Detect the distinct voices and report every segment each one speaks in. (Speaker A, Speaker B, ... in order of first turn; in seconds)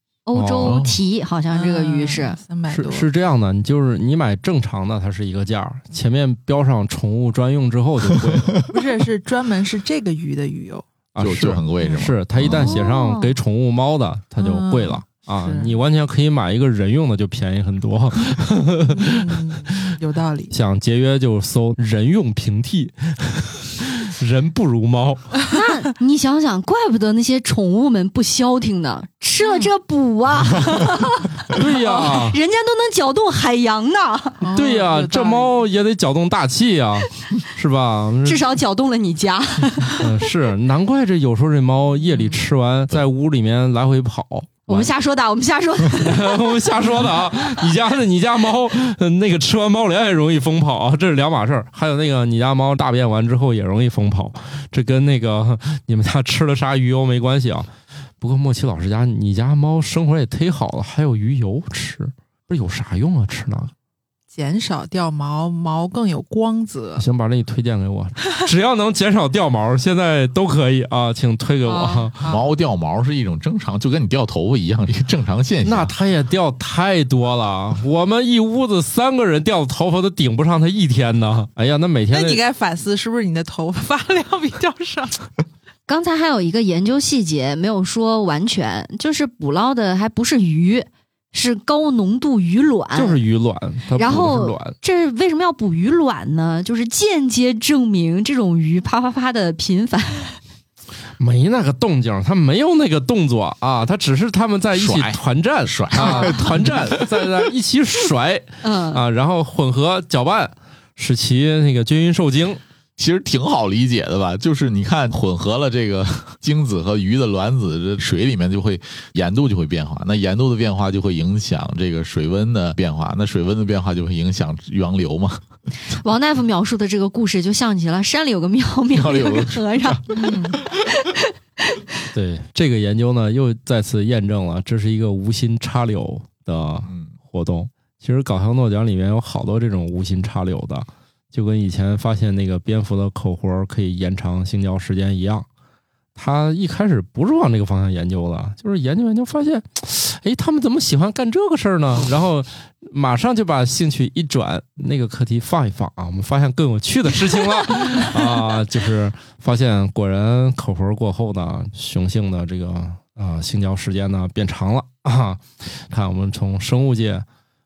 Speaker A: 0.3-2.4, 12.6-13.3, 25.5-34.5, 38.2-40.0, 44.7-46.4, 85.9-93.2, 94.0-100.4, 108.6-109.0, 125.9-131.8
Speaker B: 0.3-0.8, 2.7-8.6, 11.2-19.8, 20.5-25.4, 31.5-32.4, 34.5-38.5, 39.9-44.9, 46.0-57.7, 58.2-63.7, 67.0-72.3, 75.6-82.4, 92.9-94.8, 101.2-112.6, 132.1-145.5, 146.2-167.2
Speaker C: 0.6-1.0, 11.2-12.8, 72.3-75.9, 104.8-107.1, 113.0-125.4, 128.9-129.6
Speaker D: 1.5-3.1, 8.7-10.8, 14.4-15.8, 18.9-20.5, 29.4-29.7, 34.4-35.6, 64.3-67.0, 71.7-72.4, 82.1-85.3, 130.1-130.6